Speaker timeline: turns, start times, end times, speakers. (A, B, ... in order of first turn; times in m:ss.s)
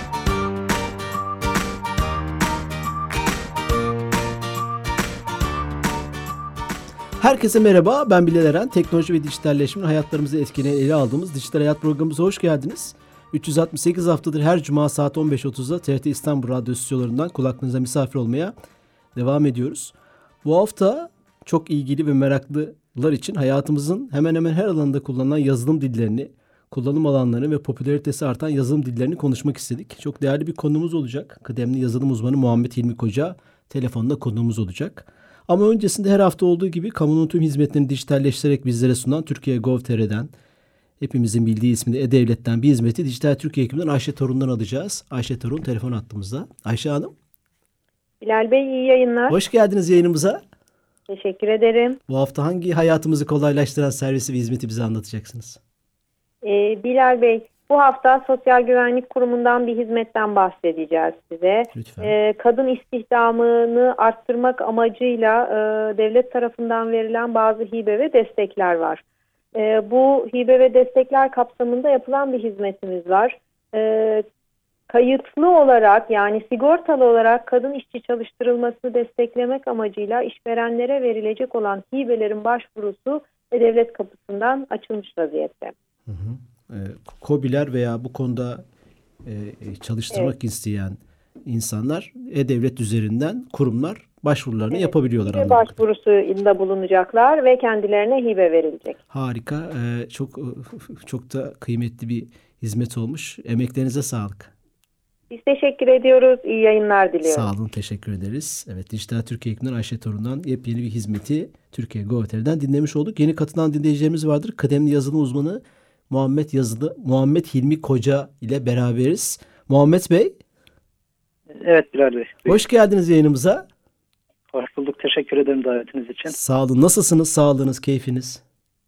0:07.2-0:18.5 A
0:19.2-0:40.3 A
0:41.0-0:47.1 A
0:48.2-0:49.4 B
0:49.3-0:50.4 A
0:51.1-0:52.0 B
0:52.1-0:55.6 A
0:56.4-1:09.0 B
1:01.8-1:02.1 A
1:09.5-1:14.2 B
1:14.9-1:25.7 B
1:26.1-1:28.6 A
1:29.2-1:35.8 A
1:34.7-1:39.0 B
1:39.1-1:44.5 A
1:45.3-1:47.5 B
1:47.2-2:00.4 A
2:01.5-2:02.6 C
2:02.5-2:03.7 A
2:04.5-2:06.4 C
2:06.3-2:08.4 A